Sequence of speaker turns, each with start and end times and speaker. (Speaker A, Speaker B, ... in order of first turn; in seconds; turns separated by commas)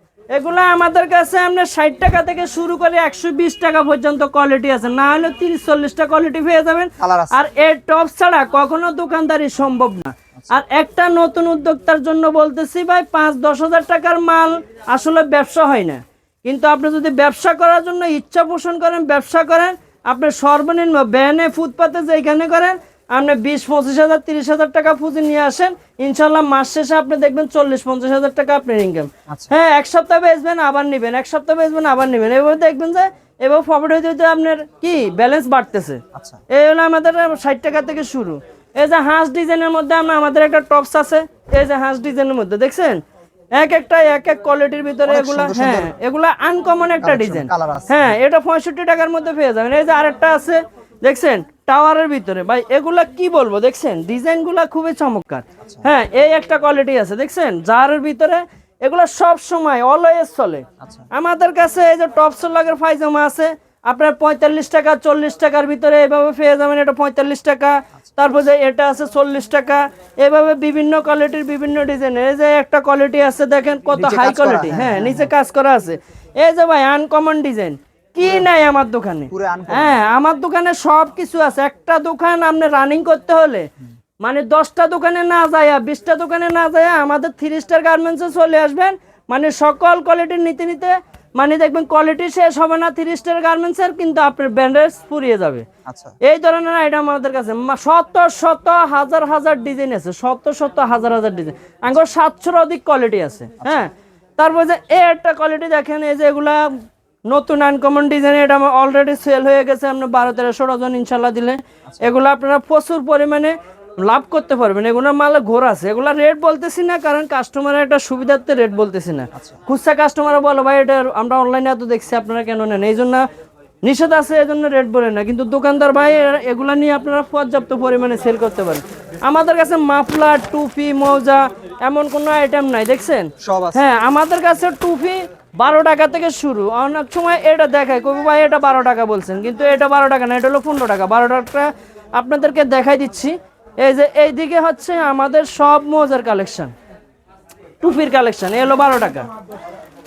Speaker A: 0.3-43.0, Speaker B: 7.0-7.3, Speaker B: 36.1-36.4, Speaker A: 43.5-83.7, Speaker B: 45.1-45.9, Speaker B: 47.0-48.1, Speaker B: 60.8-61.1, Speaker B: 73.9-75.3, Speaker B: 79.3-80.0, Speaker A: 84.2-95.7, Speaker B: 95.8-96.1, Speaker A: 96.2-123.3, Speaker A: 123.8-146.7, Speaker B: 133.4-133.9, Speaker A: 147.8-149.3